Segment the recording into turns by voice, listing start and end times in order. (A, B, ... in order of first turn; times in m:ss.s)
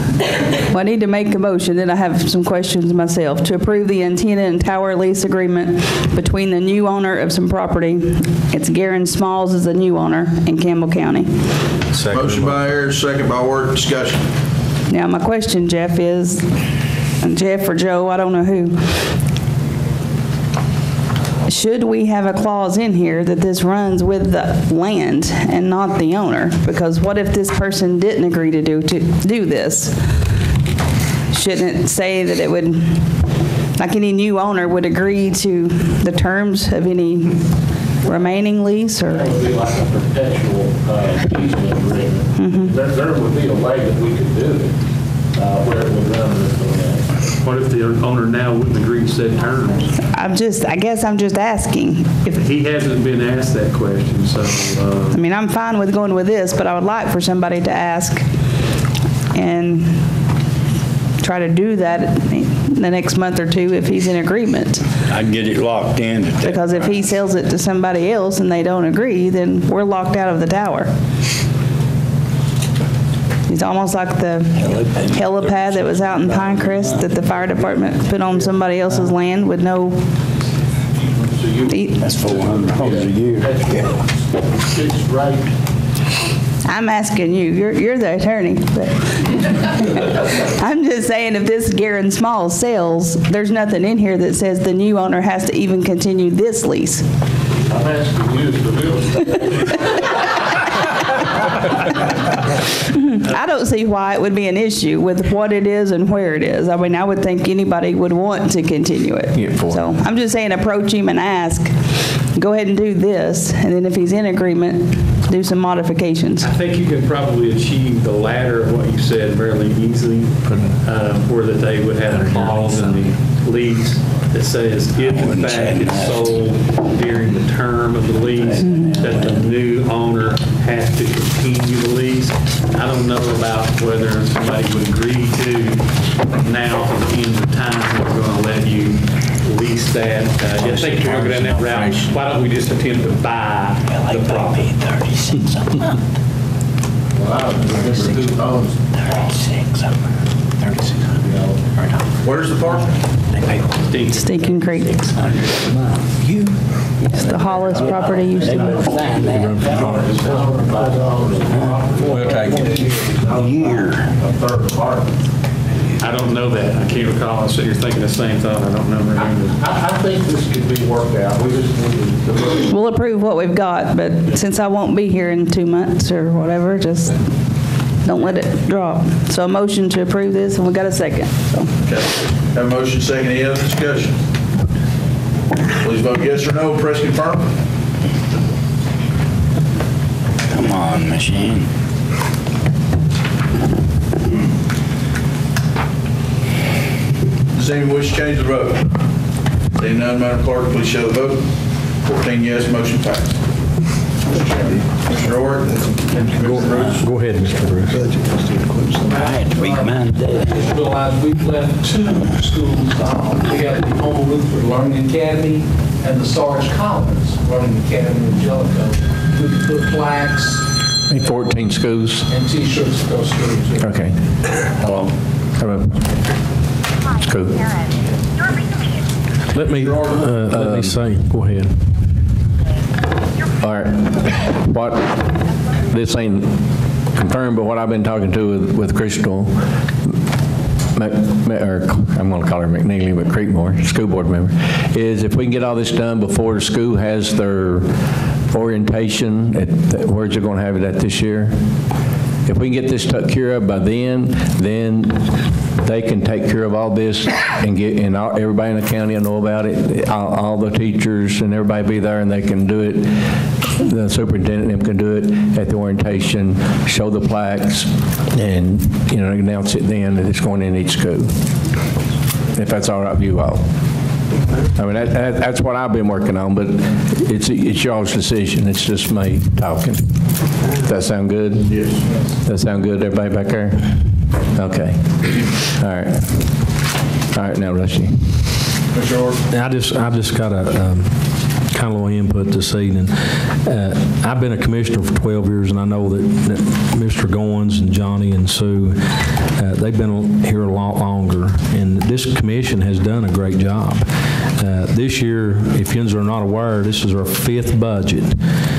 0:00.7-0:11.4 A
0:11.9-0:12.6 B
0:12.1-0:14.3 C
0:14.9-0:16.6 A
0:17.2-0:19.1 A
0:21.5-0:30.1 A
0:31.3-0:33.1 A
0:33.8-0:37.5 A
0:38.0-0:39.3 A
0:38.1-0:38.4 D
0:39.0-0:44.7 D
0:42.4-0:42.7 A
0:45.4-0:47.1 D
0:47.4-0:50.0 E
0:50.0-0:52.4 A
0:52.4-0:55.2 E
0:55.1-0:58.3 A
0:59.4-1:00.1 A
1:01.2-1:04.8 A
1:05.1-1:07.0 F
1:06.4-1:10.9 A
1:13.5-1:20.0 A
1:14.7-1:16.0 F
1:16.3-1:17.0 D
1:18.3-1:19.0 D
1:21.0-1:25.5 D
1:21.7-1:22.0 A
1:22.0-1:24.0 F
1:26.6-1:37.0 A
1:37.7-1:39.8 D
1:43.0-1:56.5 A
1:49.3-1:50.0 G
1:56.4-2:24.6 E
2:00.5-2:00.7 G
2:05.0-2:06.4 F
2:08.3-2:09.5 F
2:08.6-2:08.9 A
2:21.1-2:22.1 G
2:27.1-2:29.5 D
2:31.1-2:31.7 D
2:32.2-2:32.9 C
2:33.7-2:35.6 E
2:34.1-2:35.0 A
2:37.1-2:39.0 A
2:37.7-2:45.1 D
2:39.3-2:40.1 B
2:42.0-2:43.8 G
2:46.0-2:49.5 E
2:49.2-2:52.7 D
2:52.7-2:57.3 A
2:58.0-3:01.7 A
3:01.8-3:04.2 C
3:05.8-3:07.5 C
3:10.5-3:11.7 F
3:17.5-3:18.9 C
3:19.8-3:23.4 C
3:24.3-3:27.1 C
3:26.4-3:28.0 B
3:28.9-3:40.8 H
3:29.2-3:30.6 F
3:41.1-3:42.3 G
3:42.3-3:43.9 H
3:43.8-3:44.2 G
3:44.8-3:46.0 G
3:47.2-3:47.7 G
3:49.5-3:51.8 B
3:50.4-3:51.0 G
3:53.6-3:59.7 G
4:00.9-4:07.9 G
4:08.5-4:11.6 G
4:12.5-4:31.4 G
4:32.5-4:33.7 G
4:34.8-4:40.1 G
4:40.8-4:41.9 G
4:41.6-4:42.0 C
4:42.4-4:46.7 G
4:47.3-4:48.4 G
4:48.9-4:49.4 C
4:49.5-5:08.4 B